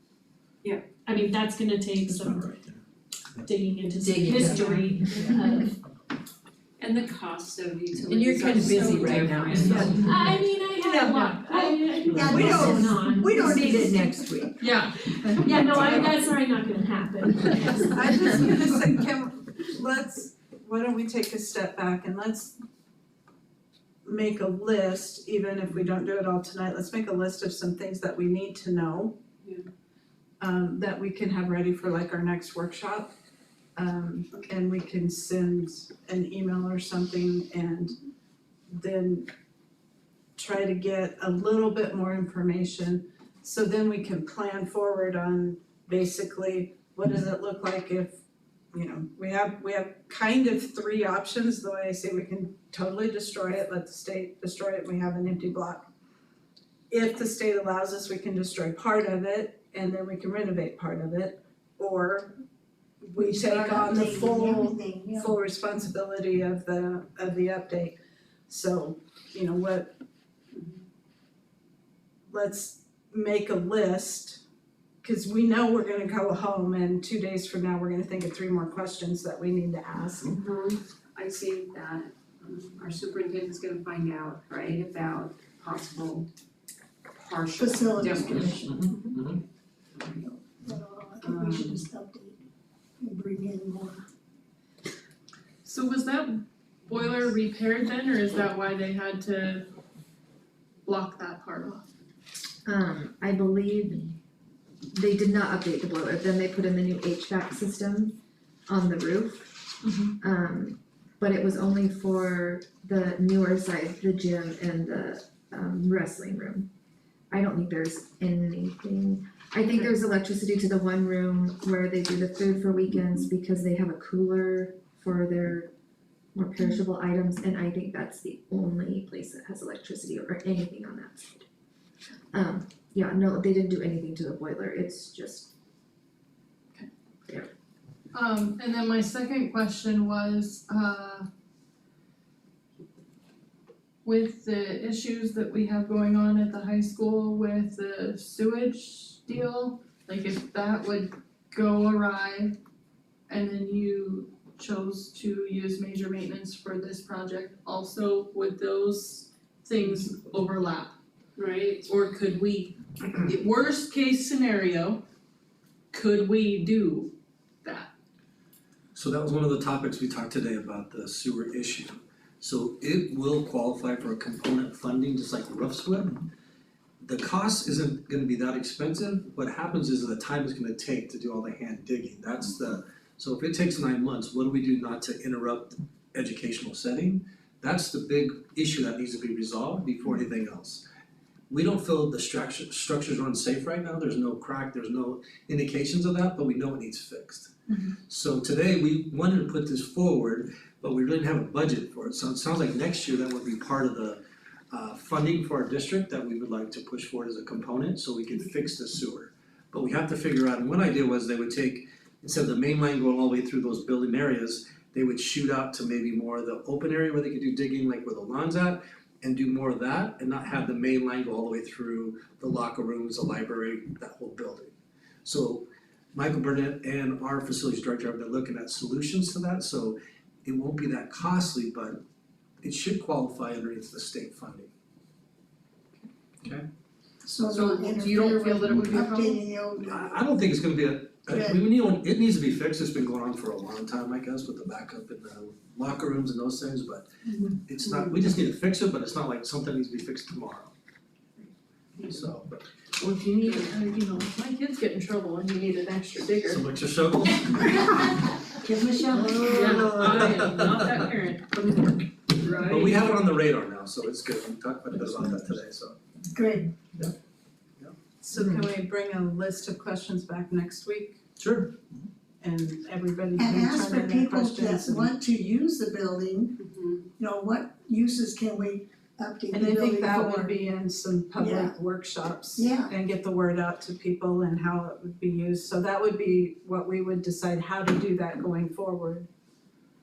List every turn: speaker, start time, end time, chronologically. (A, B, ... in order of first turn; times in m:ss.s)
0:01.0-0:02.7 A
0:03.4-0:05.7 A
0:04.0-0:05.6 B
0:05.1-0:05.4 C
0:06.8-0:10.3 C
0:08.0-0:10.3 B
0:09.5-0:13.9 A
0:10.9-0:14.7 B
0:11.5-0:12.5 C
0:12.1-0:13.9 D
0:15.3-0:16.1 B
0:15.4-0:18.0 A
0:17.8-0:22.6 E
0:24.0-0:29.2 E
0:30.4-0:33.1 E
0:33.8-0:38.0 E
0:38.7-0:39.3 E
0:40.4-0:48.2 E
0:48.7-0:55.8 E
0:56.9-1:02.4 E
1:03.0-1:08.0 E
1:03.2-1:05.3 D
1:08.5-1:09.9 E
1:12.3-1:14.4 E
1:15.0-1:20.3 E
1:20.4-1:26.3 C
1:27.1-1:29.1 C
1:27.6-1:28.7 D
1:28.2-1:29.4 F
1:30.1-1:32.4 D
1:31.2-1:31.8 C
1:33.0-1:34.0 D
1:35.6-1:39.7 G
1:40.8-1:41.9 G
1:42.6-1:44.1 H
1:44.9-1:56.7 H
1:57.3-2:05.7 H
2:06.3-2:11.4 H
2:12.3-2:15.5 H
2:18.1-2:21.3 G
2:24.0-2:32.6 G
2:33.3-2:40.9 G
2:41.4-2:41.8 C
2:41.8-2:45.0 G
2:45.9-2:47.1 G
2:47.6-2:47.9 G
2:48.9-2:56.2 F
2:57.0-3:10.8 F
3:11.5-3:17.5 F
3:18.1-3:24.2 F
3:24.7-3:44.7 F
3:45.2-3:52.0 F
3:52.6-3:54.7 F
3:57.2-4:00.0 D
3:57.5-3:59.4 G
3:58.6-3:59.0 F
3:59.8-4:07.1 F
4:01.3-4:01.6 D
4:07.6-4:10.7 F
4:12.0-4:12.6 F
4:13.0-4:16.6 G
4:16.5-4:18.2 F
4:18.6-4:20.2 D
4:19.4-4:21.1 F
4:19.5-4:23.1 G
4:22.5-4:26.0 F
4:26.3-4:26.7 D
4:28.2-4:31.2 E
4:28.3-4:28.7 H
4:31.4-4:31.9 F
4:32.4-4:35.1 E
4:33.4-4:36.6 D
4:36.6-4:37.0 C
4:37.2-4:40.6 D
4:39.5-4:49.3 E
4:41.4-4:41.7 D
4:42.6-4:42.9 D